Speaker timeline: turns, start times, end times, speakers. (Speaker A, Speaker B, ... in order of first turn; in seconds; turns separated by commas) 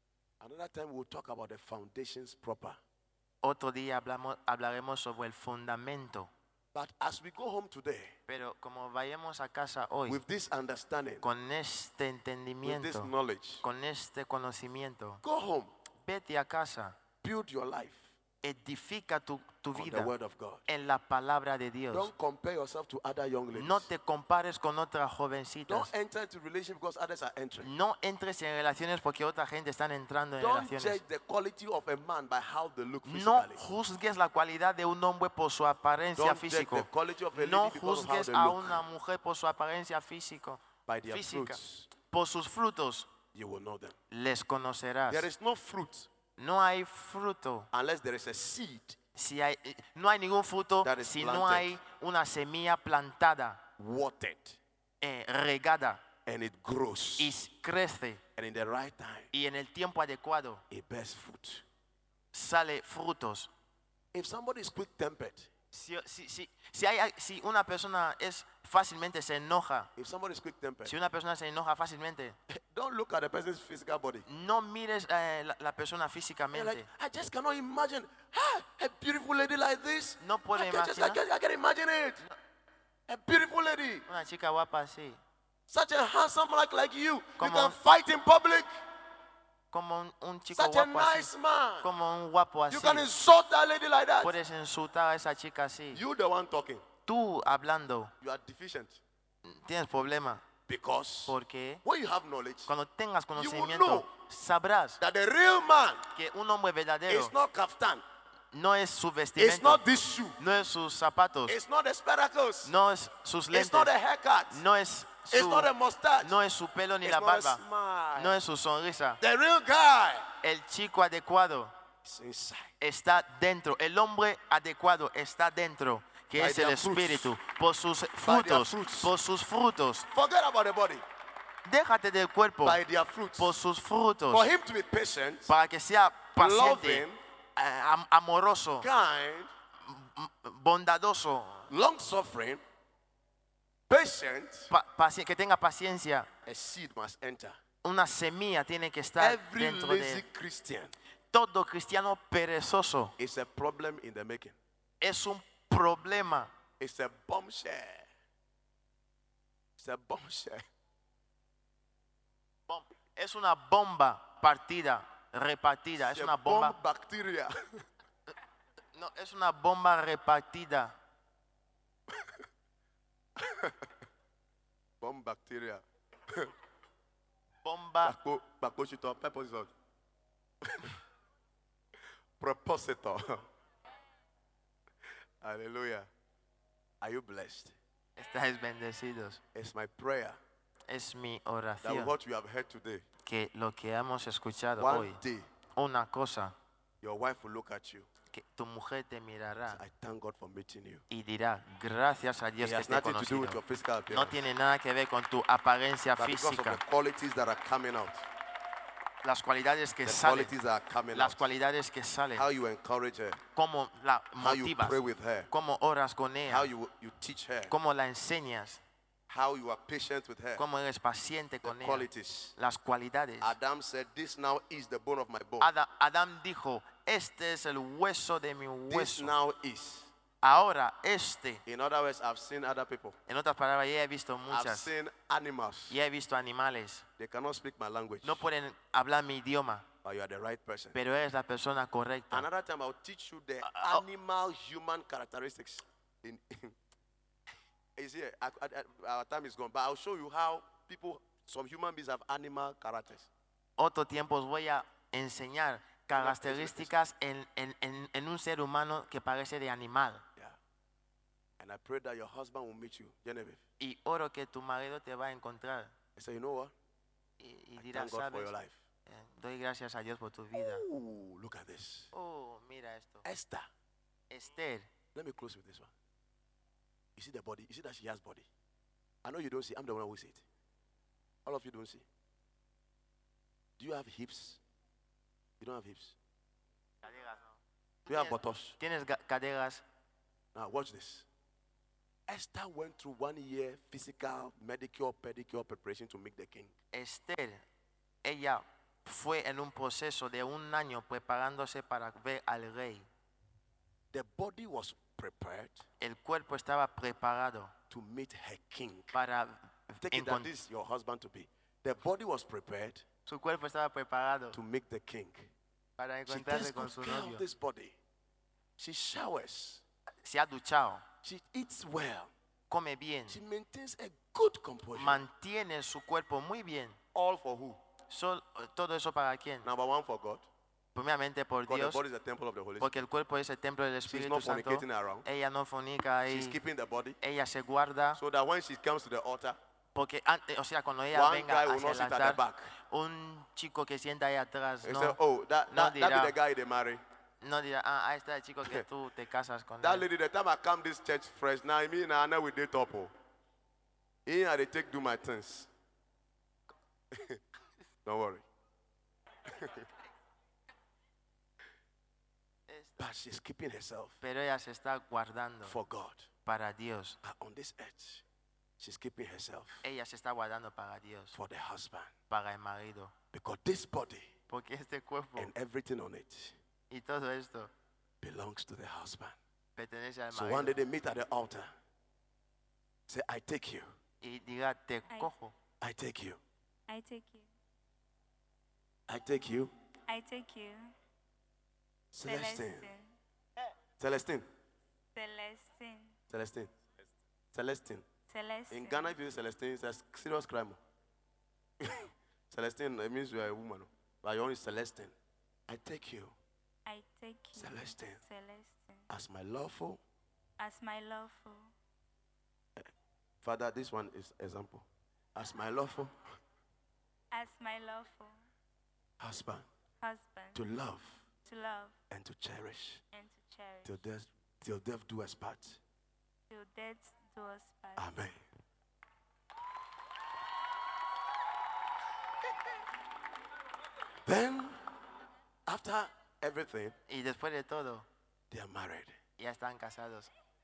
Speaker A: 0.4-2.8, Speaker B: 3.4-6.3, Speaker A: 6.7-8.2, Speaker B: 8.3-10.2, Speaker A: 10.1-11.3, Speaker B: 11.2-15.2, Speaker A: 12.6-13.7, Speaker A: 15.2-15.7, Speaker B: 16.0-17.0, Speaker A: 17.2-18.1, Speaker B: 18.4-20.1, Speaker A: 19.7-20.6, Speaker B: 20.7-22.1, Speaker A: 21.9-23.9, Speaker B: 23.6-25.9, Speaker A: 25.7-27.7, Speaker B: 27.6-31.0, Speaker A: 30.4-33.7, Speaker B: 33.1-43.1, Speaker A: 36.1-38.8, Speaker A: 40.9-41.9, Speaker A: 43.3-44.0, Speaker B: 44.1-45.3, Speaker A: 45.1-46.1, Speaker B: 46.4-47.7, Speaker A: 47.7-49.0, Speaker B: 49.1-53.6, Speaker A: 50.8-51.8, Speaker A: 53.8-54.6, Speaker B: 55.0-56.0, Speaker A: 56.3-57.3, Speaker B: 57.2-58.2, Speaker A: 58.4-59.3, Speaker B: 59.3-60.6, Speaker A: 60.7-61.6, Speaker B: 62.3-63.5, Speaker A: 64.1-65.5, Speaker B: 65.7-69.9, Speaker A: 70.0-71.0, Speaker B: 70.8-72.4, Speaker A: 72.5-74.3, Speaker B: 74.3-76.9, Speaker A: 76.5-82.2, Speaker B: 80.2-81.2, Speaker A: 83.1-84.1, Speaker B: 84.1-85.2, Speaker A: 85.7-88.7, Speaker B: 87.4-87.8, Speaker B: 89.7-91.3, Speaker A: 90.5-91.9, Speaker B: 91.8-93.1, Speaker A: 92.7-94.3, Speaker B: 94.2-96.0, Speaker A: 95.9-96.9, Speaker B: 97.1-98.1, Speaker A: 98.2-99.0, Speaker B: 99.5-100.5, Speaker A: 100.7-102.7, Speaker B: 101.3-101.8, Speaker B: 102.7-105.0, Speaker A: 103.3-104.1, Speaker A: 105.0-106.1, Speaker B: 106.1-107.3, Speaker A: 107.1-108.0, Speaker B: 108.5-109.8, Speaker A: 109.4-110.4, Speaker B: 110.4-111.6, Speaker A: 111.5-112.7, Speaker B: 112.6-113.9, Speaker A: 113.5-114.6, Speaker B: 114.5-115.7, Speaker A: 115.3-116.4, Speaker B: 116.2-117.6, Speaker A: 117.0-118.4, Speaker B: 118.2-119.2, Speaker A: 119.2-120.3, Speaker B: 120.4-121.7, Speaker A: 122.0-122.7, Speaker B: 122.8-130.1, Speaker A: 126.4-127.4, Speaker A: 128.2-129.1, Speaker A: 130.1-131.0, Speaker B: 131.7-132.8, Speaker A: 132.6-133.6, Speaker B: 133.4-134.5, Speaker A: 134.3-135.5, Speaker B: 135.5-138.9, Speaker A: 136.4-137.2, Speaker A: 138.8-139.5, Speaker B: 139.8-141.7, Speaker A: 141.7-142.6, Speaker A: 143.9-144.7, Speaker B: 144.7-146.3, Speaker A: 146.4-147.6, Speaker B: 147.8-150.2, Speaker A: 149.2-150.9, Speaker B: 151.3-153.2, Speaker A: 153.2-154.6, Speaker B: 155.0-156.5, Speaker A: 156.8-158.1, Speaker A: 159.8-160.6, Speaker B: 162.7-166.8, Speaker A: 166.0-167.8, Speaker B: 168.9-171.0, Speaker A: 173.4-173.9, Speaker A: 175.0-176.5, Speaker B: 177.6-178.2, Speaker A: 178.0-179.7, Speaker A: 180.6-181.0, Speaker A: 182.4-183.5, Speaker A: 185.4-186.1, Speaker A: 187.0-187.8, Speaker B: 188.2-189.4, Speaker A: 189.5-190.4, Speaker B: 190.9-192.1, Speaker A: 191.8-193.1, Speaker B: 193.2-195.2, Speaker A: 194.8-195.5, Speaker B: 195.8-196.6, Speaker A: 197.0-198.1, Speaker B: 198.3-199.8, Speaker A: 199.7-201.0, Speaker B: 201.1-203.6, Speaker A: 202.6-204.4, Speaker B: 204.1-206.8, Speaker A: 206.2-208.3, Speaker B: 209.2-210.5, Speaker A: 210.1-211.5, Speaker B: 211.1-212.5, Speaker A: 212.4-213.4, Speaker B: 213.6-215.0, Speaker A: 214.4-215.5, Speaker B: 215.5-216.7, Speaker A: 216.5-217.7, Speaker B: 217.7-218.8, Speaker A: 219.3-220.6, Speaker B: 220.6-223.6, Speaker A: 221.6-222.5, Speaker A: 223.4-225.7, Speaker B: 225.6-229.3, Speaker A: 228.9-230.1, Speaker B: 230.4-231.6, Speaker A: 231.7-233.2, Speaker B: 233.3-234.9, Speaker A: 234.5-236.0, Speaker B: 235.9-237.1, Speaker A: 237.2-238.5, Speaker B: 238.2-239.9, Speaker A: 240.0-241.0, Speaker B: 240.9-242.5, Speaker A: 242.3-246.8, Speaker B: 243.6-244.0, Speaker A: 248.0-253.3, Speaker B: 253.8-260.2, Speaker A: 256.1-256.9, Speaker A: 261.6-263.6, Speaker B: 263.8-265.9, Speaker A: 266.2-266.7, Speaker B: 267.4-268.5, Speaker A: 267.8-268.8, Speaker B: 269.1-270.9, Speaker A: 270.6-272.1, Speaker B: 272.1-273.2, Speaker A: 273.2-273.7, Speaker B: 274.3-274.9, Speaker A: 275.1-275.9, Speaker A: 277.2-278.5, Speaker A: 279.2-280.4, Speaker A: 281.4-282.1, Speaker A: 283.8-284.6, Speaker A: 285.6-286.2, Speaker B: 287.0-289.8, Speaker A: 288.1-288.8, Speaker A: 290.5-291.3, Speaker A: 292.3-296.7, Speaker B: 296.9-297.6, Speaker B: 298.2-303.1, Speaker A: 304.1-305.9, Speaker B: 306.0-307.7, Speaker A: 307.9-309.2, Speaker B: 309.1-310.5, Speaker A: 310.0-313.1, Speaker B: 313.3-314.6, Speaker A: 314.5-315.5, Speaker B: 316.0-317.4, Speaker A: 316.3-318.0, Speaker A: 318.8-319.8, Speaker B: 320.2-321.0, Speaker A: 321.2-322.3, Speaker B: 322.7-323.4, Speaker A: 323.3-325.3, Speaker B: 324.9-327.0, Speaker A: 327.1-327.8, Speaker B: 328.1-329.7, Speaker A: 329.6-330.5, Speaker B: 330.9-332.0, Speaker A: 331.7-333.0, Speaker B: 332.8-336.6, Speaker A: 334.1-335.3, Speaker A: 336.3-337.2, Speaker B: 337.2-338.2, Speaker A: 338.2-339.6, Speaker B: 339.9-346.4, Speaker A: 341.1-342.7, Speaker A: 344.8-347.0, Speaker B: 347.4-350.1, Speaker A: 349.8-353.1, Speaker A: 354.3-355.7, Speaker A: 357.1-357.4, Speaker A: 358.1-358.5, Speaker A: 359.4-359.9, Speaker B: 362.7-363.1, Speaker A: 363.0-364.2, Speaker B: 364.2-365.8, Speaker A: 365.6-366.3, Speaker B: 366.5-367.2, Speaker A: 367.2-368.2, Speaker A: 368.8-369.9, Speaker B: 369.8-371.4, Speaker A: 371.3-372.1, Speaker B: 372.3-373.1, Speaker A: 373.3-374.3, Speaker B: 374.5-375.5, Speaker A: 375.4-376.6, Speaker B: 376.9-377.7, Speaker A: 378.2-379.4, Speaker B: 379.8-380.8, Speaker A: 380.3-381.7, Speaker A: 383.1-383.9, Speaker B: 384.2-385.5, Speaker A: 385.8-386.4, Speaker C: 386.9-387.5, Speaker A: 389.1-389.7, Speaker C: 390.1-390.9, Speaker A: 392.1-392.9, Speaker C: 392.2-393.1, Speaker A: 394.0-394.5, Speaker C: 395.1-396.2, Speaker A: 396.3-396.7, Speaker A: 397.5-398.1, Speaker C: 398.3-399.1, Speaker A: 398.7-400.8, Speaker A: 401.8-405.1, Speaker A: 405.7-406.4, Speaker C: 406.9-409.1, Speaker A: 407.6-408.2, Speaker A: 409.1-410.0, Speaker C: 410.6-411.7, Speaker A: 413.4-416.1, Speaker C: 417.3-418.4, Speaker A: 419.2-419.7, Speaker C: 420.0-420.6, Speaker A: 420.6-421.2, Speaker C: 421.5-422.0, Speaker A: 422.1-423.0, Speaker C: 423.1-424.0, Speaker A: 423.9-425.8, Speaker C: 426.5-428.1, Speaker A: 428.0-428.4, Speaker A: 434.2-434.8, Speaker A: 435.7-437.0, Speaker B: 437.1-438.1, Speaker A: 438.5-439.2, Speaker B: 439.4-440.3